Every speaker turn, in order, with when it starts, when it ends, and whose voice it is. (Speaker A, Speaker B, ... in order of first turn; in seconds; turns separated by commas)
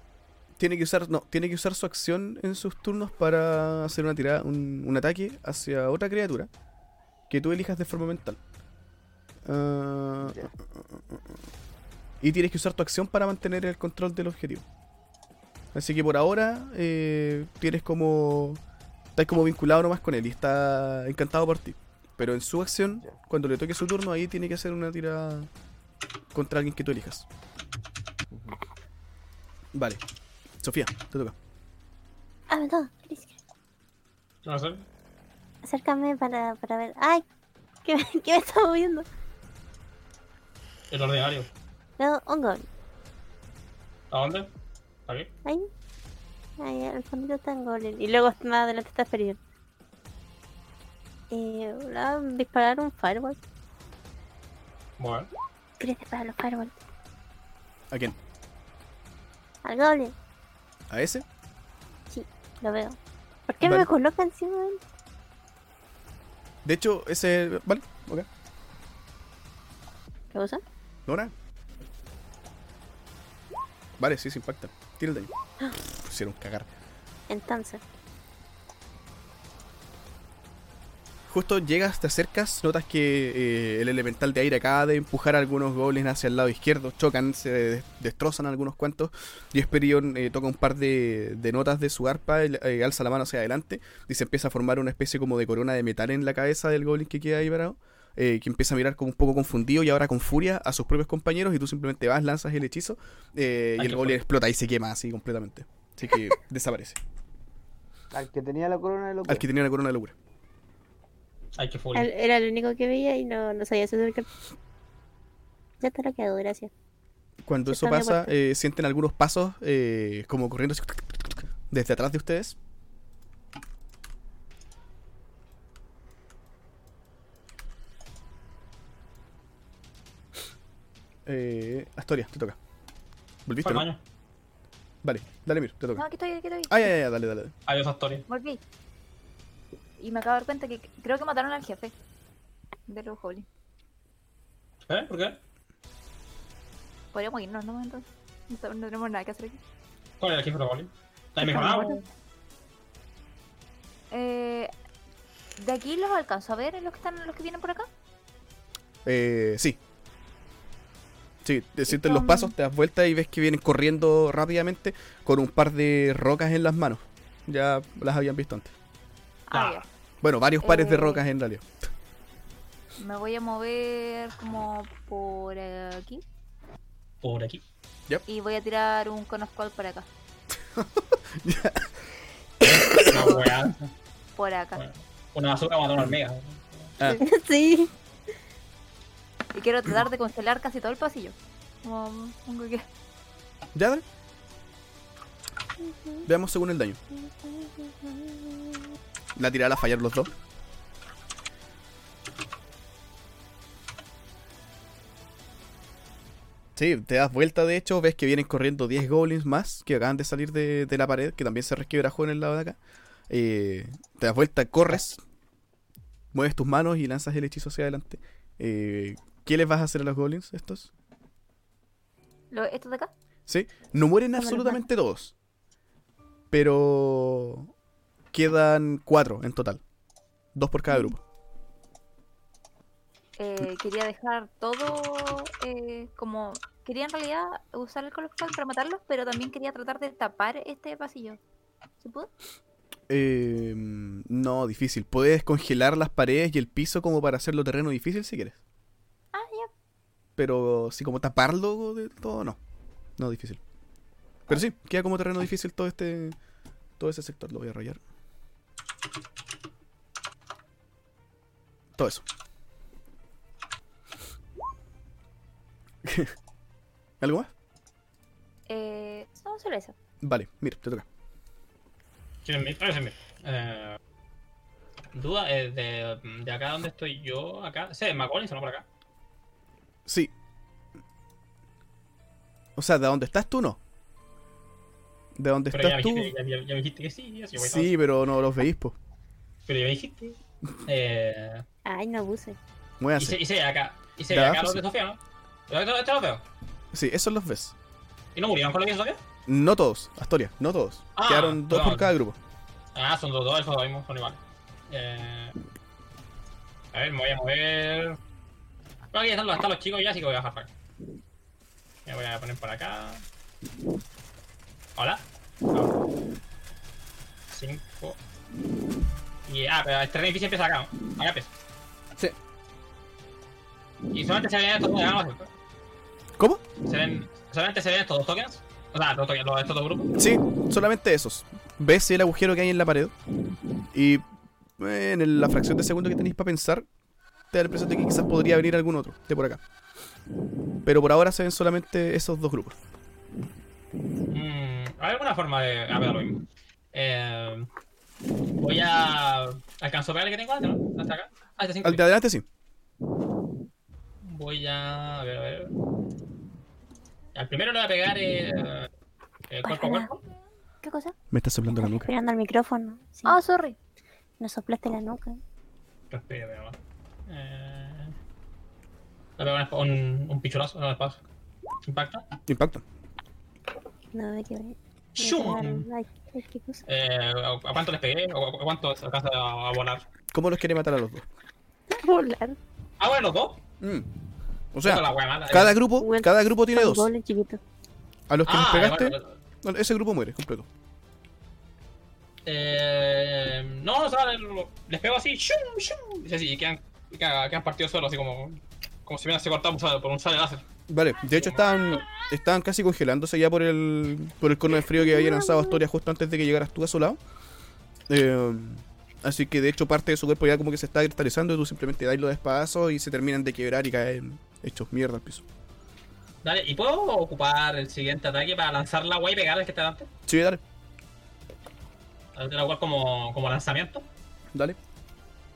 Speaker A: 0.6-6.5, Speaker A: 7.3-8.4, Speaker A: 9.4-11.2, Speaker B: 10.2-10.5, Speaker A: 12.2-14.6, Speaker A: 15.7-18.6, Speaker A: 19.1-25.5, Speaker A: 26.3-27.2, Speaker B: 28.3-28.6, Speaker A: 29.7-30.0, Speaker A: 30.6-31.3, Speaker C: 32.5-33.4, Speaker D: 34.4-34.8, Speaker C: 35.6-37.2, Speaker C: 37.8-39.0, Speaker D: 40.9-41.5, Speaker C: 42.0-42.6, Speaker D: 44.1-44.5, Speaker C: 46.6-49.4, Speaker C: 51.3-53.4, Speaker D: 55.0-55.3, Speaker C: 55.8-56.8, Speaker A: 57.9-58.2, Speaker C: 59.6-60.1, Speaker A: 60.9-61.2, Speaker C: 62.1-63.0, Speaker C: 63.5-64.8, Speaker A: 63.6-63.9, Speaker A: 66.6-68.3, Speaker C: 70.3-70.6, Speaker A: 71.1-71.3, Speaker A: 74.0-75.3, Speaker A: 76.0-76.7, Speaker C: 77.3-77.8, Speaker A: 81.3-107.0, Speaker D: 103.8-104.2, Speaker B: 108.1-109.5, Speaker A: 109.3-110.1, Speaker D: 111.5-112.1, Speaker C: 111.9-114.3, Speaker C: 115.8-116.7, Speaker A: 117.5-122.6, Speaker C: 117.7-118.3, Speaker A: 131.2-132.6, Speaker A: 133.4-133.9, Speaker D: 133.6-134.0, Speaker A: 135.0-136.0, Speaker E: 135.9-136.8, Speaker A: 136.7-137.5, Speaker D: 137.7-138.2, Speaker E: 138.3-138.6, Speaker E: 140.0-141.9, Speaker E: 142.9-143.4, Speaker D: 144.9-145.4, Speaker E: 147.1-149.6, Speaker D: 150.2-152.0, Speaker E: 151.4-152.1, Speaker E: 154.1-154.7, Speaker E: 155.6-157.9, Speaker A: 159.0-159.8, Speaker A: 161.4-168.7, Speaker E: 161.9-162.5, Speaker E: 169.5-169.8, Speaker D: 169.5-169.8, Speaker A: 170.2-171.7, Speaker E: 170.6-171.2, Speaker E: 173.0-176.2, Speaker D: 177.2-177.6, Speaker E: 178.3-180.1, Speaker A: 180.7-181.9, Speaker A: 182.6-183.3, Speaker D: 182.7-183.9, Speaker E: 184.3-184.8, Speaker D: 184.8-186.9, Speaker C: 187.2-187.9, Speaker E: 189.5-192.8, Speaker A: 193.7-194.0, Speaker C: 195.8-196.3, Speaker A: 196.2-197.0, Speaker C: 197.1-198.8, Speaker A: 199.3-200.3, Speaker A: 206.8-212.8, Speaker A: 213.3-215.2, Speaker A: 216.3-220.9, Speaker E: 222.5-223.1, Speaker A: 223.5-225.3, Speaker C: 224.4-224.8, Speaker A: 226.5-227.7, Speaker A: 228.3-229.8, Speaker A: 230.5-231.2, Speaker E: 233.4-241.4, Speaker E: 242.0-242.3, Speaker A: 243.1-248.6, Speaker E: 249.3-249.7, Speaker A: 250.4-252.6, Speaker A: 253.2-253.6, Speaker A: 254.5-256.4, Speaker A: 257.0-258.0, Speaker A: 261.9-262.2, Speaker A: 266.0-266.3, Speaker A: 267.2-267.5, Speaker E: 268.7-269.9, Speaker A: 270.2-271.1, Speaker D: 272.4-274.0, Speaker D: 275.1-278.9, Speaker A: 280.1-280.3, Speaker A: 282.8-283.8, Speaker A: 285.4-286.3, Speaker D: 285.7-287.9, Speaker A: 287.6-288.9, Speaker D: 289.7-291.6, Speaker C: 291.9-292.6, Speaker A: 293.0-293.4, Speaker D: 293.2-296.4, Speaker A: 294.3-294.8, Speaker A: 296.9-297.7, Speaker D: 298.3-299.2, Speaker A: 299.5-302.4, Speaker D: 301.1-302.1, Speaker D: 302.9-305.6, Speaker D: 306.9-308.2, Speaker D: 309.1-310.7, Speaker D: 312.1-313.2, Speaker D: 314.9-316.0, Speaker D: 317.5-318.2, Speaker D: 319.4-321.5, Speaker D: 324.1-325.5, Speaker D: 326.8-330.1, Speaker A: 330.2-333.1, Speaker A: 333.9-334.2, Speaker A: 334.8-336.9, Speaker A: 337.5-339.6, Speaker A: 340.8-342.8, Speaker D: 344.3-346.4, Speaker D: 346.9-347.7, Speaker D: 348.6-352.0, Speaker A: 351.8-352.4, Speaker D: 354.2-355.7, Speaker D: 357.3-358.9, Speaker D: 359.5-360.1, Speaker C: 359.6-360.1, Speaker E: 360.8-361.1, Speaker A: 361.3-362.1, Speaker C: 361.8-363.4, Speaker E: 363.2-363.8, Speaker C: 364.4-365.4, Speaker D: 366.1-368.1, Speaker D: 369.4-371.2, Speaker D: 371.9-372.3, Speaker A: 372.5-372.8, Speaker C: 374.1-376.8, Speaker D: 375.2-375.9, Speaker D: 376.9-380.0, Speaker A: 380.3-381.3, Speaker C: 381.9-382.6, Speaker D: 383.0-383.6, Speaker A: 383.8-384.1, Speaker A: 384.7-387.1, Speaker D: 384.8-385.8, Speaker C: 386.0-387.6, Speaker A: 388.3-390.7, Speaker D: 388.4-389.4, Speaker D: 392.4-400.6, Speaker A: 400.9-407.2, Speaker D: 401.3-402.1, Speaker C: 404.9-405.8, Speaker A: 408.1-415.4, Speaker D: 416.4-420.1, Speaker A: 420.3-420.6, Speaker D: 422.4-424.1